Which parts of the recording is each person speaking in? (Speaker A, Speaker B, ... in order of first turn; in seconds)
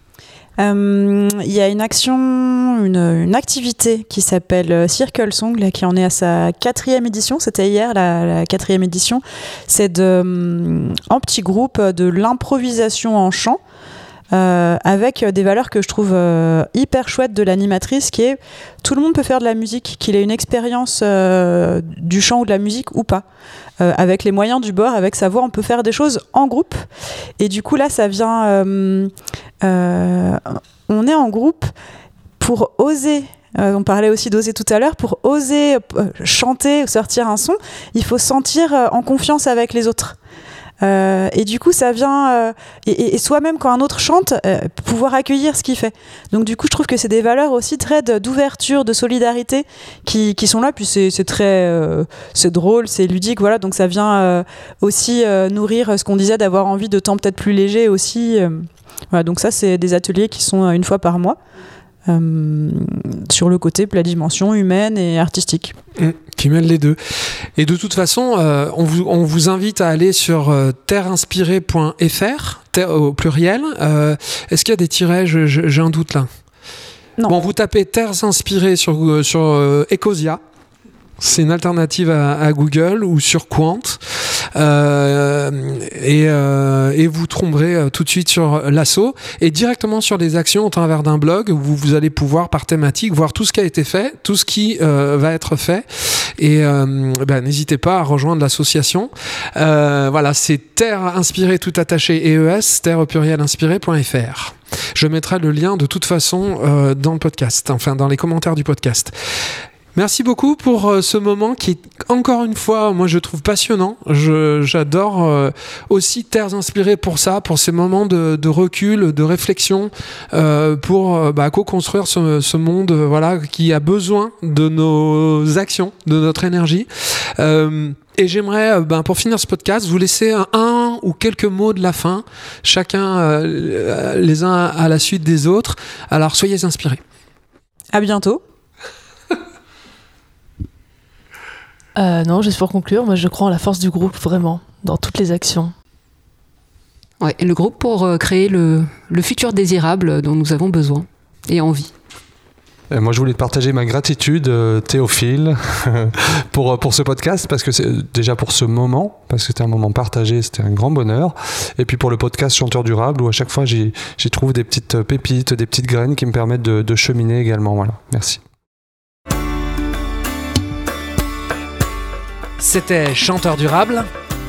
Speaker A: 0.6-13.6, 14.3-23.2, 23.8-26.8, 27.4-31.7, 32.4-40.2, 40.8-61.4, 62.1-65.7, 137.9-138.4
Speaker B: 66.0-76.3, 77.3-80.4, 81.2-109.2, 109.9-137.0, 172.6-174.1
Speaker C: 141.9-145.7
Speaker D: 147.2-151.9
Speaker E: 152.9-168.4